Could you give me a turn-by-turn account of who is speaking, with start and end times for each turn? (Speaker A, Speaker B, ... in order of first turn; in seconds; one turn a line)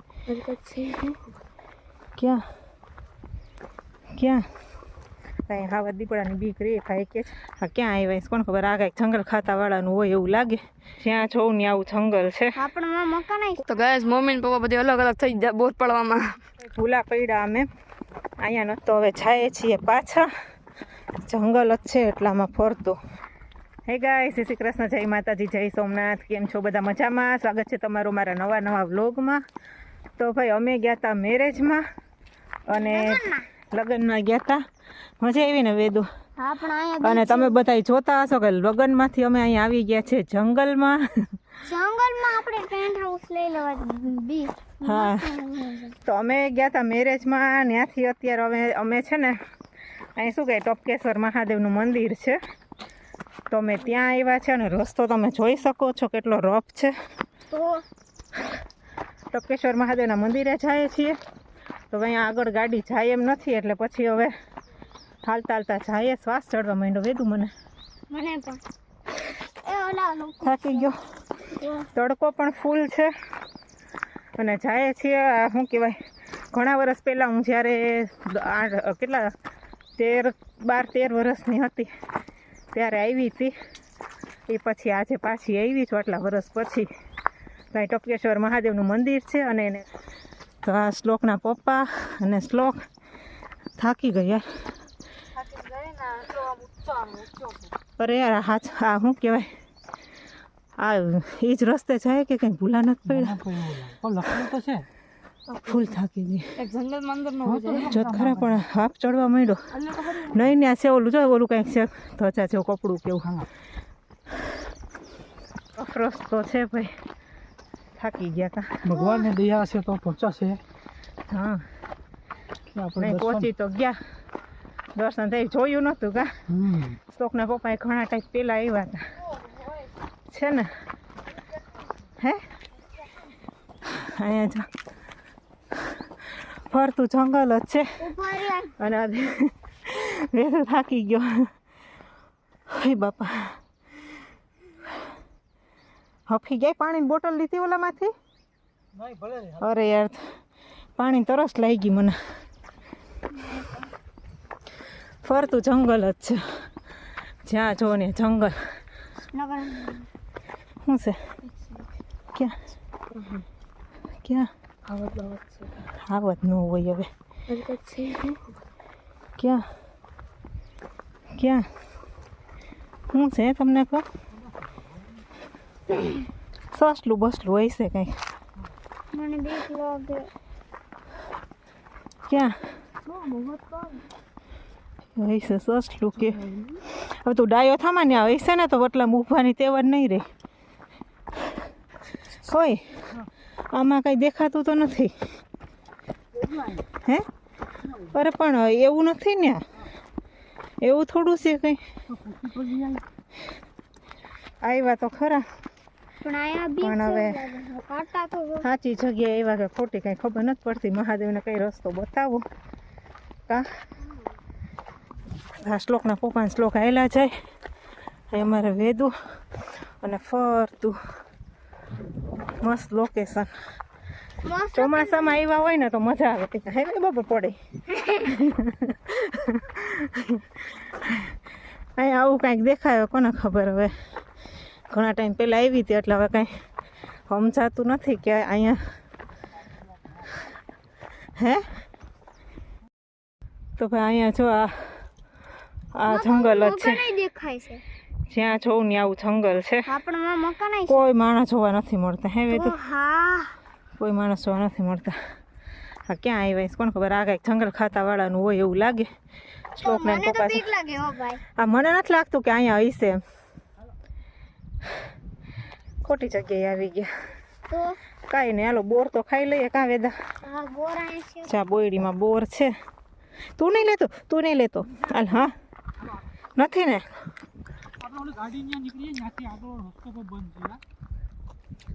Speaker A: 0.3-1.3
Speaker B: 2.2-2.5
Speaker B: 4.1-4.5
Speaker B: 5.5-12.6
Speaker C: 12.6-13.6
Speaker A: 13.7-16.4
Speaker B: 16.6-17.7
Speaker B: 18.4-20.3
Speaker B: 21.2-23.0
Speaker B: 23.9-29.4
Speaker B: 30.2-31.9
Speaker B: 32.7-34.6
Speaker C: 32.7-33.5
Speaker B: 35.2-36.1
Speaker C: 36.4-37.6
Speaker B: 37.0-41.2
Speaker C: 41.6-46.0
Speaker B: 44.8-45.3
Speaker B: 46.0-49.4
Speaker B: 50.2-52.4
Speaker B: 53.5-56.9
Speaker C: 57.5-57.8
Speaker B: 59.3-61.2
Speaker B: 61.9-64.3
Speaker B: 65.2-67.5
Speaker C: 68.1-68.6
Speaker C: 69.5-70.9
Speaker B: 70.4-71.0
Speaker C: 71.5-71.9
Speaker B: 71.9-73.1
Speaker B: 74.4-76.0
Speaker B: 76.5-79.3
Speaker B: 80.0-81.9
Speaker B: 82.7-83.5
Speaker B: 84.5-86.9
Speaker B: 87.7-89.9
Speaker B: 90.6-92.9
Speaker B: 93.8-94.6
Speaker A: 95.5-97.3
Speaker B: 98.0-99.5
Speaker B: 100.8-103.4
Speaker D: 103.1-104.9
Speaker B: 105.6-106.5
Speaker A: 106.6-108.0
Speaker D: 107.4-108.6
Speaker B: 107.9-113.3
Speaker D: 109.8-110.4
Speaker B: 115.8-116.9
Speaker B: 118.0-118.9
Speaker D: 118.8-120.6
Speaker B: 121.3-121.7
Speaker D: 122.7-123.5
Speaker B: 123.0-124.0
Speaker B: 125.0-126.4
Speaker D: 126.5-127.0
Speaker B: 127.0-129.1
Speaker B: 130.3-130.7
Speaker B: 133.8-134.7
Speaker B: 136.2-138.0
Speaker C: 138.0-138.8
Speaker B: 138.8-141.5
Speaker B: 142.7-143.6
Speaker B: 146.3-148.1
Speaker D: 149.0-149.6
Speaker B: 149.6-150.4
Speaker B: 151.0-152.2
Speaker B: 155.2-156.6
Speaker B: 157.4-158.6
Speaker C: 159.3-160.1
Speaker B: 160.8-161.2
Speaker A: 163.2-163.4
Speaker B: 164.2-164.5
Speaker A: 164.9-165.7
Speaker B: 166.0-167.1
Speaker A: 167.5-168.5
Speaker B: 169.4-169.7
Speaker B: 171.3-171.7
Speaker B: 173.1-174.1
Speaker B: 176.7-178.2
Speaker C: 179.1-180.3
Speaker B: 182.3-182.6
Speaker A: 183.1-183.9
Speaker B: 185.2-190.3
Speaker B: 192.4-193.0
Speaker B: 193.7-195.2
Speaker D: 196.4-196.8
Speaker B: 197.0-197.3
Speaker B: 198.0-199.7
Speaker B: 200.8-201.8
Speaker D: 202.1-203.0
Speaker B: 204.6-205.4
Speaker C: 206.2-208.7
Speaker B: 206.8-207.4
Speaker B: 208.6-212.4
Speaker B: 215.5-217.3
Speaker B: 218.3-219.2
Speaker B: 219.8-221.0
Speaker B: 222.6-223.5
Speaker C: 224.4-225.4
Speaker B: 224.7-227.6
Speaker C: 227.9-228.2
Speaker B: 228.1-231.4
Speaker B: 232.0-233.9
Speaker B: 234.9-236.5
Speaker B: 237.3-238.8
Speaker B: 241.4-241.7
Speaker B: 243.8-245.0
Speaker B: 245.9-247.1
Speaker C: 246.1-247.8
Speaker B: 248.3-249.9
Speaker C: 249.9-251.0
Speaker B: 250.9-252.8
Speaker C: 252.5-253.6
Speaker B: 254.0-255.2
Speaker B: 256.1-259.1
Speaker B: 259.8-260.7
Speaker C: 259.8-261.4
Speaker B: 261.5-263.2
Speaker B: 266.0-267.1
Speaker C: 267.7-268.0
Speaker B: 268.3-270.1
Speaker C: 270.4-271.5
Speaker B: 271.5-272.7
Speaker B: 273.6-275.6
Speaker B: 276.6-277.2
Speaker D: 278.0-280.8